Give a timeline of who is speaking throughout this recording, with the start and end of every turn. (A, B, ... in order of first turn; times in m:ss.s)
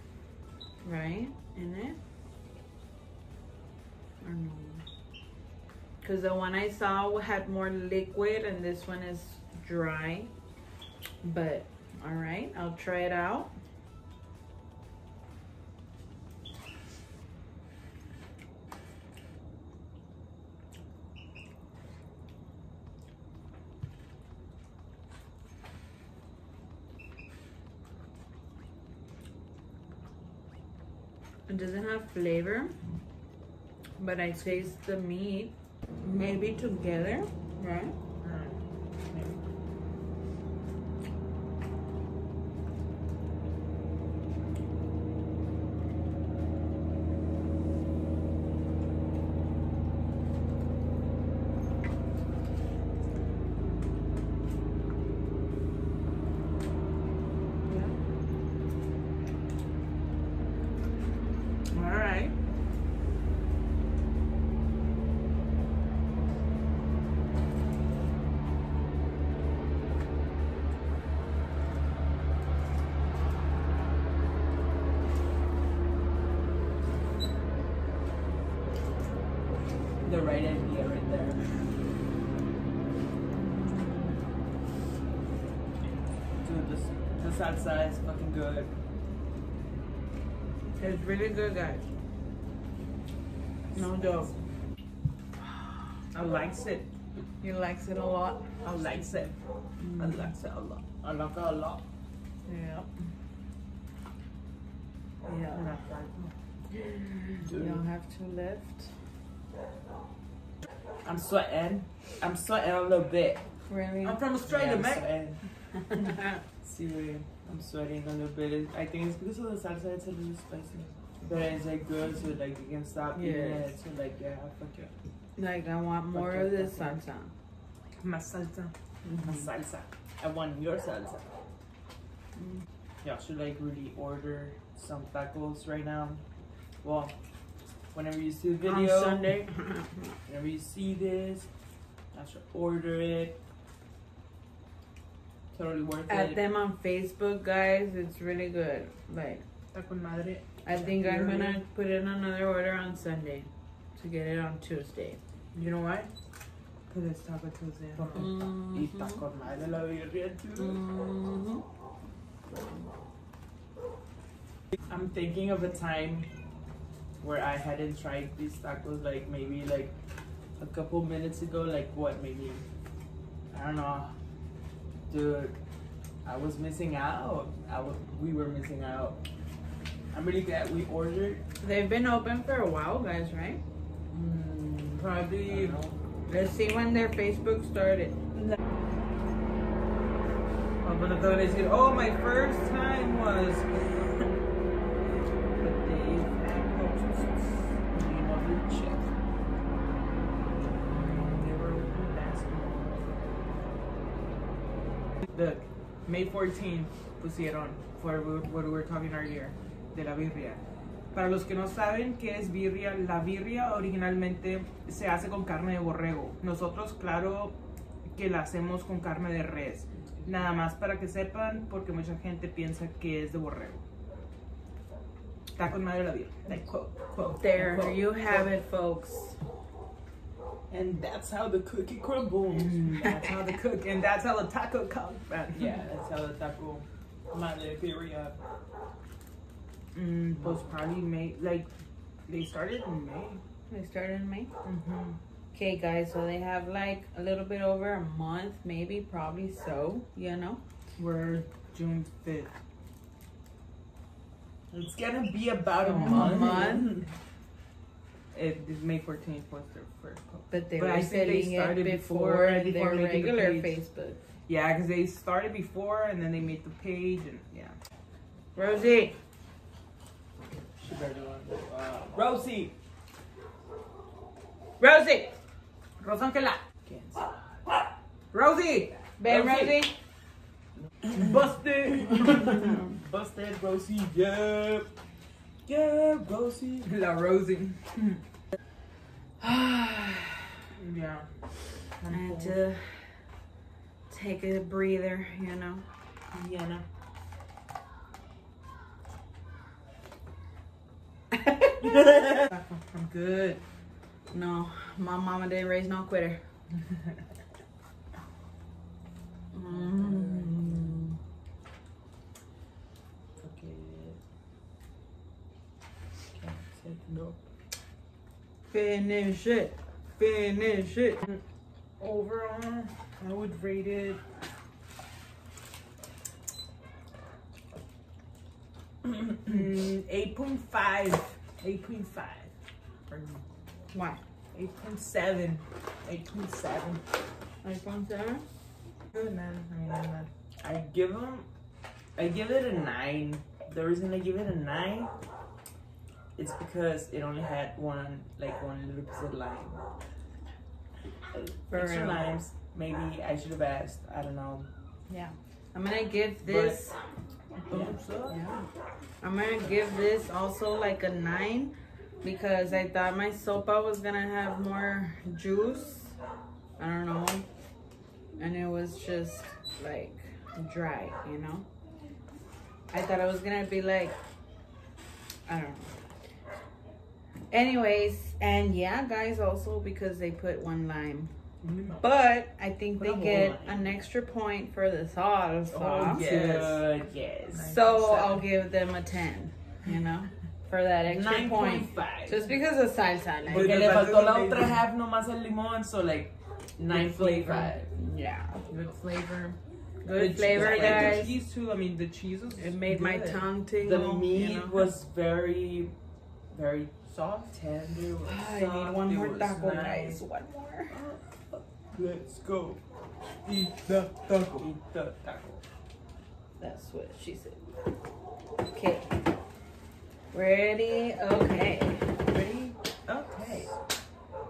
0:00.8-0:02.0 A
0:04.2-0:04.8 A
0:06.0-0:10.3 A
0:11.2-0:13.5 A
0:31.5-0:32.8 A
0:34.0-0:38.0 A
0:38.3-0:38.5 B
0:57.7-0:58.0 B
1:01.7-1:02.3 B
1:20.0-1:21.6 C
1:23.3-1:24.2 A
1:26.4-1:28.7 C
1:30.8-1:31.8 A
1:33.7-1:34.4 C
1:33.8-1:34.3 A
1:36.1-1:36.9 B
1:37.4-1:38.5 A
1:38.6-1:39.4 B
1:38.7-1:39.3 C
1:40.0-1:40.4 C
1:40.0-1:40.9 B
1:40.9-1:41.8 C
1:42.5-1:42.9 A
1:45.3-1:45.6 A
1:45.5-1:46.3 B
1:46.7-1:48.9 A
1:47.4-1:47.8 C
1:51.0-1:53.4 C
1:53.7-1:54.2 A
1:54.0-1:55.1 B
1:54.5-1:55.4 C
1:55.9-1:56.4 A
1:56.6-2:04.9 C
2:03.2-2:03.7 A
2:05.4-2:07.3 A
2:06.1-2:07.0 C
2:08.0-2:08.7 B
2:09.0-2:09.5 A
2:09.1-2:11.3 C
2:12.4-2:12.6 A
2:13.0-2:16.2 C
2:16.8-2:17.1 C
2:17.9-2:19.4 C
2:18.6-2:20.2 A
2:20.3-2:21.5 C
2:22.1-2:23.4 C
2:25.5-2:26.4 C
2:26.1-2:29.4 A
2:29.7-2:31.6 B
2:30.6-2:35.2 A
2:35.6-2:36.1 B
2:36.9-2:38.4 B
2:38.0-2:40.8 C
2:38.1-2:39.2 A
2:40.6-2:41.7 A
2:44.9-2:46.3 C
2:47.2-2:49.9 C
2:50.6-2:52.6 C
2:53.5-2:54.1 C
2:55.1-2:55.6 C
2:56.2-2:59.2 C
3:00.1-3:01.4 C
3:01.6-3:03.6 A
3:04.1-3:06.0 C
3:04.9-3:05.8 B
3:06.3-3:08.2 A
3:10.8-3:14.3 B
3:15.6-3:17.3 B
3:15.6-3:19.0 C
3:18.1-3:18.6 B
3:20.9-3:22.9 B
3:20.9-3:22.9 C
3:25.3-3:30.6 B
3:31.1-3:37.6 B
3:38.2-3:43.8 B
3:45.6-3:48.4 B
3:47.4-3:49.4 A
3:50.7-3:53.4 C
3:52.5-3:55.8 B
3:55.5-3:58.4 C
3:59.9-4:01.7 B
4:00.3-4:00.7 C
4:02.3-4:03.4 B
4:03.7-4:04.5 A
4:04.6-4:05.2 B
4:05.5-4:10.6 A
4:11.0-4:12.5 B
4:14.7-4:17.1 C
4:15.8-4:16.9 B
4:15.8-4:17.0 A
4:18.3-4:23.8 B
4:20.5-4:24.2 A
4:24.5-4:27.8 B
4:28.6-4:29.2 A
4:30.8-4:32.3 B
4:31.7-4:32.7 C
4:34.8-4:35.4 A
4:36.0-4:36.6 B
4:36.9-4:37.2 C
4:38.3-4:39.8 B
4:39.2-4:39.9 A
4:41.1-4:42.8 B
4:41.2-4:41.5 C
4:42.0-4:44.9 C
4:45.7-4:46.9 C
4:46.8-4:48.2 B
4:49.4-4:50.4 A
4:50.8-4:51.3 B
4:51.9-4:52.6 B
4:52.1-4:53.2 A
4:54.1-4:55.9 A
4:56.3-4:56.8 B
5:01.3-5:02.4 A
5:02.4-5:03.6 B
5:04.3-5:06.4 A
5:09.5-5:11.2 A
5:09.7-5:11.0 C
5:13.4-5:14.2 C
5:16.3-5:17.4 C
5:18.7-5:21.2 A
5:22.0-5:24.2 B
5:29.4-5:32.5 B
5:33.1-5:33.4 B
5:33.9-5:34.2 A
5:34.5-5:37.0 B
5:37.6-5:38.4 A
5:39.1-5:40.3 B
5:40.6-5:41.5 C
5:42.2-5:45.1 C
5:46.4-5:49.8 C
5:51.3-5:54.7 C
5:51.7-5:52.3 A
5:55.1-5:57.0 A
5:56.4-5:56.8 C
5:57.7-5:58.4 B
5:57.7-5:58.0 C
5:58.3-5:58.7 A
5:59.2-6:06.2 A
6:06.8-6:07.5 A
6:08.4-6:11.7 A
6:12.9-6:14.2 A
6:15.5-6:15.9 A
6:17.5-6:21.3 A
6:21.7-6:22.0 B
6:22.0-6:26.3 A
6:23.0-6:24.0 C
6:25.7-6:26.8 B
6:26.0-6:27.7 C
6:27.5-6:28.4 B
6:27.6-6:34.1 A
6:31.0-6:32.5 C
6:33.5-6:34.8 B
6:33.5-6:37.9 C
6:36.9-6:38.6 A
6:36.9-6:37.7 B
6:38.7-6:39.6 B
6:40.0-6:41.3 A
6:40.1-6:43.5 B
6:40.4-6:41.3 C
6:42.5-6:44.8 A
6:43.8-6:46.0 C
6:46.5-6:50.2 C
6:47.1-6:47.5 B
6:48.2-6:51.0 A
6:50.9-6:52.8 C
6:53.5-6:54.7 B
6:54.5-6:55.6 C
6:56.6-6:57.7 A
6:58.6-6:59.2 A
7:00.3-7:02.2 A
7:02.3-7:03.7 C